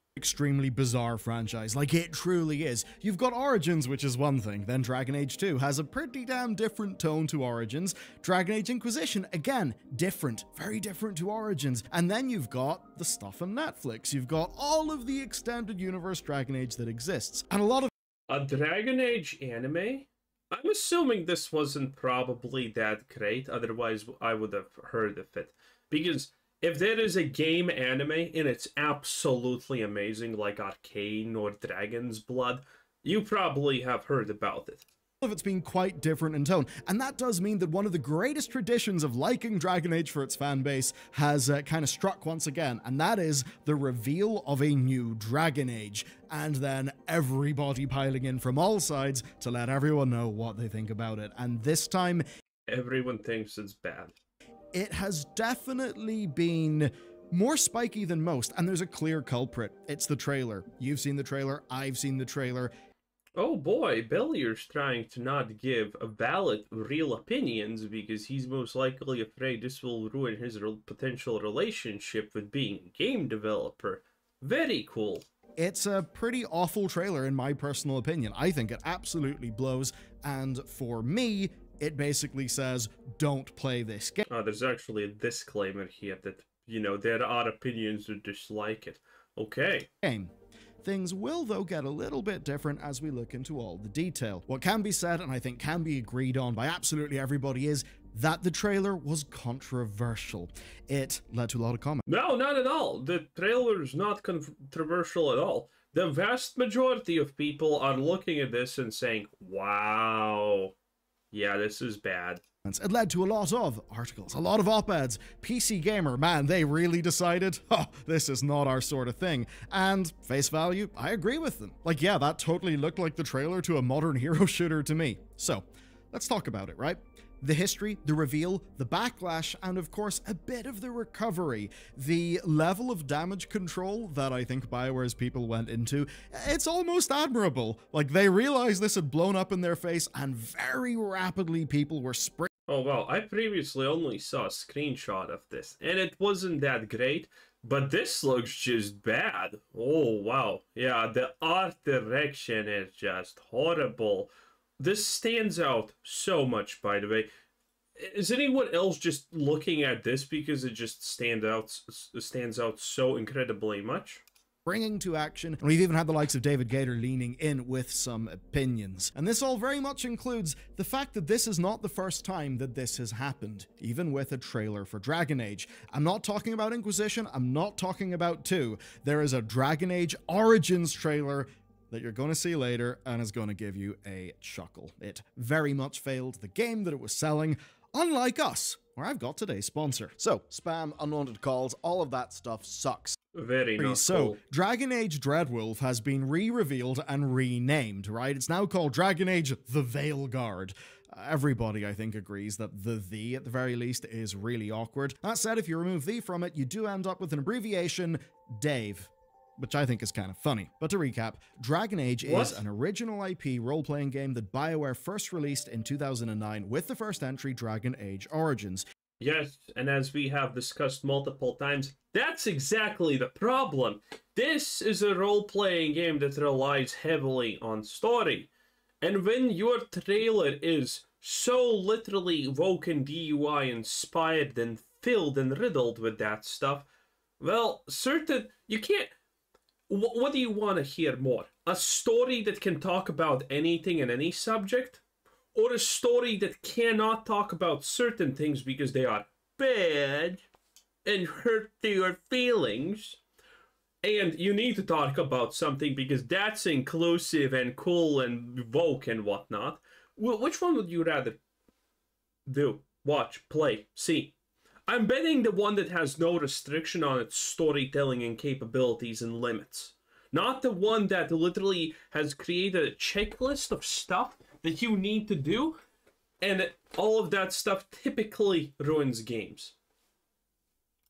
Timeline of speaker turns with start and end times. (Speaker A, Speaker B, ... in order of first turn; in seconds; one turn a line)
Speaker A: 0.2-17.9
Speaker B: 18.3-34.9
Speaker A: 35.2-52.2
Speaker B: 52.7-54.1
Speaker A: 54.7-62.7
Speaker B: 63.4-75.2
Speaker A: 75.6-84.2
Speaker B: 84.3-89.9
Speaker A: 90.0-102.0
Speaker B: 102.1-110.7
Speaker B: 111.3-112.4
Speaker A: 112.6-142.5
Speaker B: 142.7-157.3
Speaker B: 158.0-164.2
Speaker A: 164.7-193.2
Speaker B: 193.3-194.4
Speaker A: 193.8-218.8
Speaker B: 212.2-212.6
Speaker B: 219.2-228.5
Speaker B: 229.0-236.9
Speaker B: 237.4-239.1
Speaker B: 239.9-245.0
Speaker B: 245.5-250.5
Speaker B: 251.0-253.2
Speaker B: 254.0-261.4
Speaker B: 262.5-264.3
Speaker B: 264.9-275.8
Speaker B: 276.4-279.8